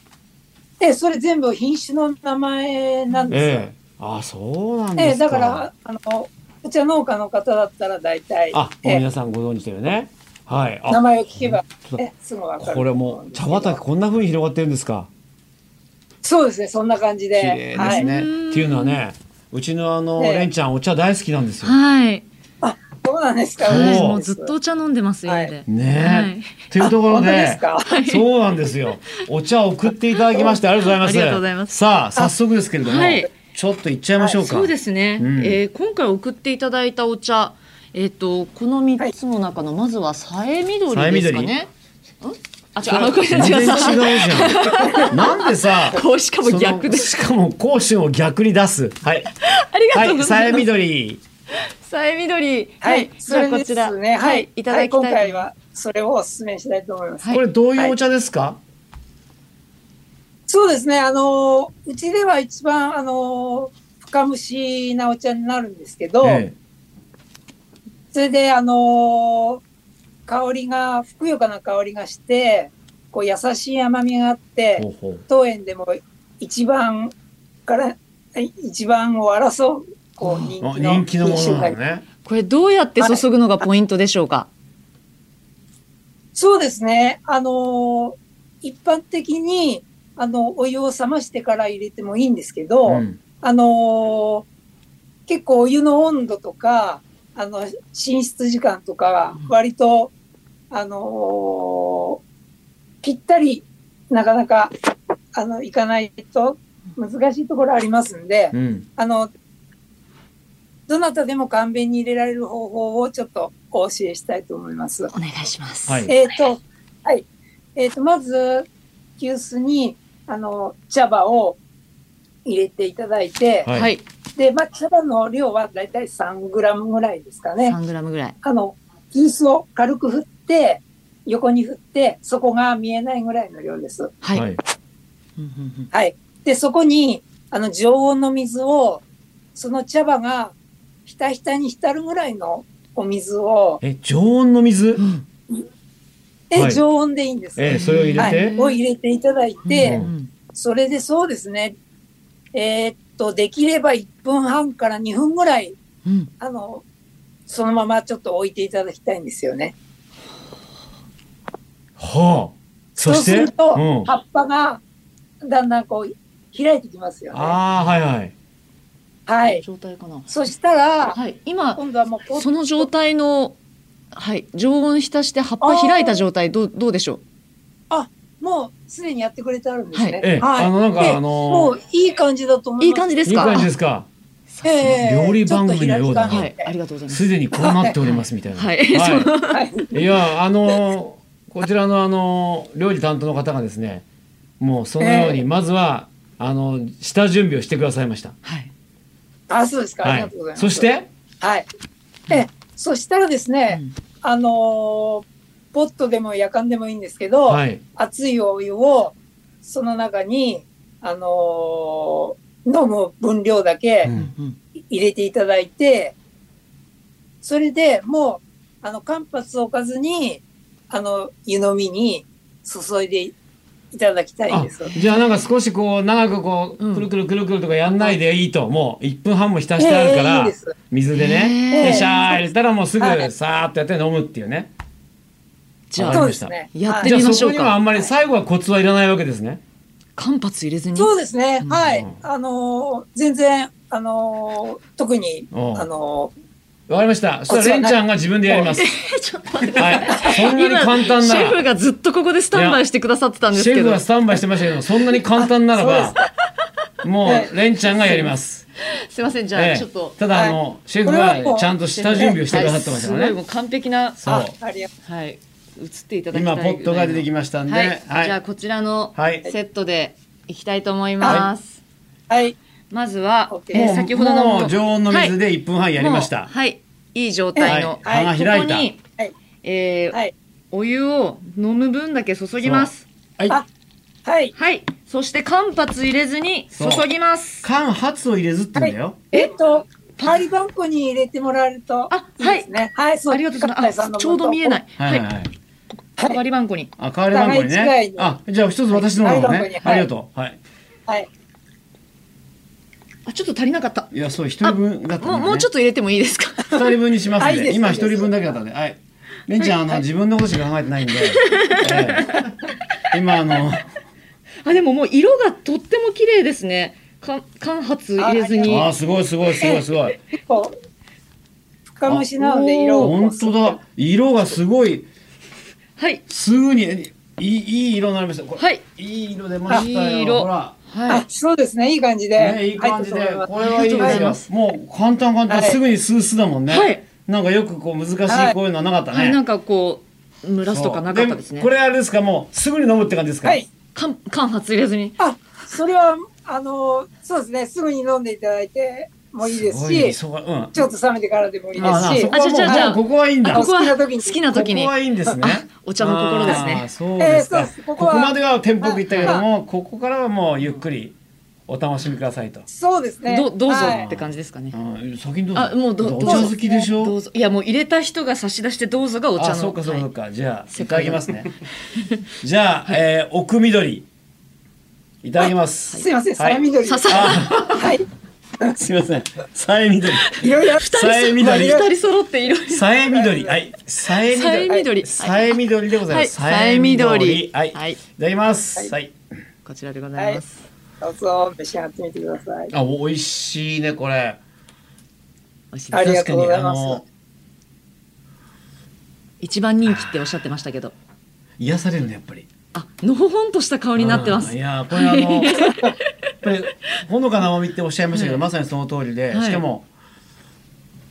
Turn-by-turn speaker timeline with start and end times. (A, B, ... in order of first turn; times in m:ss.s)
0:00.8-0:03.6 A
0:03.3-0:05.6 B
0:05.0-0:09.0 A
0:08.5-0:12.0 B
0:10.9-0:13.8 A
0:12.6-0:15.1 B
0:16.2-0:18.0 A
0:17.4-0:21.8 B
0:17.7-0:19.0 C
0:20.2-0:20.5 A
0:21.6-0:22.2 C
0:22.6-0:24.5 A
0:23.6-0:26.7 C
0:23.7-0:24.2 B
0:25.2-0:25.5 A
0:25.7-0:35.6 B
0:26.8-0:27.9 A
0:27.8-0:28.2 C
0:30.1-0:31.7 C
0:32.8-0:33.3 C
0:34.4-0:41.7 C
0:40.9-0:41.5 B
0:42.2-0:47.1 C
0:42.8-0:49.2 B
0:49.3-0:50.7 C
0:49.9-0:51.2 B
0:51.8-0:55.4 C
0:52.8-0:57.9 A
0:57.3-0:58.6 B
1:00.5-1:06.4 A
1:06.2-1:06.5 B
1:08.1-1:09.6 A
1:10.3-1:17.1 A
1:14.8-1:15.2 B
1:17.7-1:21.8 A
1:20.2-1:20.5 C
1:20.6-1:22.0 B
1:22.2-1:24.5 C
1:26.3-1:34.5 A
1:32.8-1:33.2 B
1:35.3-1:40.1 A
1:40.7-1:42.2 A
1:43.0-1:44.7 A
1:45.3-1:49.3 A
1:48.5-1:48.8 B
1:50.9-1:55.1 A
1:55.1-1:56.1 C
1:55.9-1:56.1 B
1:56.1-2:01.6 A
2:02.4-2:03.7 A
2:03.6-2:03.9 B
2:03.7-2:04.0 C
2:04.4-2:07.8 A
2:07.6-2:08.4 C
2:08.4-2:14.1 A
2:14.2-2:14.5 C
2:14.3-2:14.6 B
2:15.4-2:15.9 C
2:15.9-2:19.0 A
2:19.5-2:20.5 A
2:21.0-2:23.8 A
2:23.8-2:25.0 B
2:25.0-2:25.2 C
2:26.5-2:30.0 A
2:26.5-2:26.8 B
2:27.6-2:28.5 B
2:27.7-2:28.8 C
2:29.6-2:30.3 C
2:29.8-2:30.1 B
2:30.5-2:31.8 A
2:32.5-2:35.8 A
2:36.4-2:36.8 A
2:37.5-2:39.7 A
2:42.0-2:44.1 B
2:43.0-2:44.8 A
2:45.4-2:47.6 A
2:47.3-2:48.3 B
2:49.3-2:49.6 A
2:49.4-2:50.3 C
2:50.3-2:51.2 A
2:51.1-2:53.6 C
2:51.8-2:52.9 A
2:54.1-2:57.2 C
2:55.6-2:56.2 A
2:57.9-3:03.6 A
2:59.9-3:00.2 C
3:00.2-3:01.7 B
3:02.8-3:03.7 C
3:03.2-3:04.1 B
3:04.5-3:04.8 C
3:04.6-3:06.7 A
3:04.8-3:06.5 B
3:06.3-3:09.9 C
3:07.1-3:09.3 B
3:09.5-3:09.9 A
3:09.9-3:14.0 B
3:14.6-3:18.3 B
3:15.0-3:15.4 A
3:18.4-3:18.7 C
3:19.5-3:21.7 A
3:20.0-3:21.1 B
3:22.3-3:34.1 A
3:23.7-3:23.9 C
3:27.5-3:27.8 B
3:34.0-3:34.3 B
3:34.1-3:34.6 C
3:34.8-3:36.1 A
3:37.4-3:43.3 A
3:43.9-3:44.9 A
3:44.5-3:54.7 B
3:44.9-3:45.2 C
3:46.8-3:47.1 C
3:49.8-3:50.7 A
3:51.1-3:52.3 C
3:51.7-3:52.4 A
3:53.0-3:53.3 A
3:55.9-3:57.8 C
3:56.0-3:59.6 B
3:56.1-3:57.2 A
4:00.2-4:01.1 C
4:01.0-4:06.3 A
4:01.6-4:02.0 C
4:01.9-4:02.2 B
4:05.5-4:05.9 B
4:06.9-4:08.9 B
4:07.5-4:08.7 A
4:08.6-4:14.4 C
4:09.8-4:11.6 B
4:12.5-4:12.8 B
4:13.5-4:16.2 B
4:15.7-4:16.2 A
4:17.0-4:18.6 B
4:17.2-4:17.5 A
4:17.9-4:18.3 C
4:19.1-4:20.2 C
4:19.5-4:23.4 B
4:20.3-4:22.4 A
4:21.8-4:24.2 C
4:24.2-4:24.5 B
4:24.3-4:24.9 A
4:25.0-4:31.8 C
4:26.3-4:28.4 B
4:29.1-4:29.5 B
4:32.3-4:32.6 A
4:32.9-4:35.4 C
4:33.5-4:34.0 A
4:33.7-4:36.5 B
4:36.0-4:39.0 C
4:37.5-4:38.3 A
4:37.7-4:38.9 B
4:39.6-4:40.2 C
4:40.7-4:43.0 C
4:42.6-4:43.6 B
4:44.2-4:44.5 A
4:44.6-4:47.6 C
4:46.7-4:47.1 B
4:47.6-4:49.2 B
4:48.8-4:54.8 A
4:50.2-4:50.5 C
4:52.1-4:52.7 C
4:53.3-4:55.3 C
4:55.0-4:55.5 B
4:56.2-4:56.9 C
4:57.0-5:00.6 B
4:57.3-4:58.4 A
4:58.9-5:00.0 C
4:59.2-5:00.1 A
5:03.2-5:04.1 C
5:04.1-5:05.7 B
5:04.6-5:06.7 C
5:06.7-5:12.5 B
5:07.4-5:08.4 A
5:09.6-5:10.0 C
5:11.1-5:12.4 C
5:13.1-5:13.8 B
5:14.6-5:18.9 C
5:18.2-5:18.9 A
5:18.6-5:20.1 B
5:19.6-5:20.7 A
5:21.9-5:23.8 A
5:22.4-5:23.1 C
5:23.0-5:25.1 B
5:26.0-5:26.2 C
5:26.3-5:30.8 B
5:28.6-5:28.8 C
5:29.7-5:31.2 C
5:31.1-5:34.3 A
5:32.4-5:39.4 B
5:33.6-5:34.5 C
5:35.5-5:35.8 A
5:36.7-5:37.0 C
5:38.3-5:38.6 A
5:39.1-5:41.7 C
5:40.6-5:43.6 B
5:43.4-5:43.7 A
5:43.9-5:45.2 C
5:45.2-5:50.2 A
5:49.4-5:50.8 B
5:50.7-5:53.0 A
5:51.8-5:56.9 C
5:51.8-5:53.6 B
5:53.5-5:54.4 A
5:54.5-6:01.2 B
5:57.2-5:59.4 A
5:59.1-5:59.4 C
6:01.7-6:02.6 B
6:02.7-6:04.0 A
6:03.3-6:04.8 C
6:03.8-6:07.2 B
6:05.5-6:10.1 C
6:06.2-6:06.6 A
6:09.4-6:11.5 B
6:10.7-6:11.5 C
6:12.4-6:14.1 B
6:15.2-6:17.9 B
6:16.0-6:18.0 A
6:16.8-6:17.8 C
6:18.8-6:20.3 B
6:20.1-6:22.8 C
6:20.4-6:21.9 A
6:20.9-6:21.8 B
6:22.7-6:29.2 B
6:23.0-6:23.6 A
6:24.2-6:28.0 C
6:29.6-6:30.6 C
6:31.0-6:32.7 A
6:32.7-6:34.4 B
6:35.7-6:36.3 C
6:35.9-6:37.0 A
6:36.0-6:37.0 B
6:39.4-6:40.9 C
6:39.8-6:40.1 B
6:41.6-6:42.5 B
6:42.7-6:46.0 C
6:44.0-6:45.6 B
6:45.7-6:45.9 A
6:46.4-6:49.9 B
6:48.1-6:48.4 C
6:49.3-6:49.6 C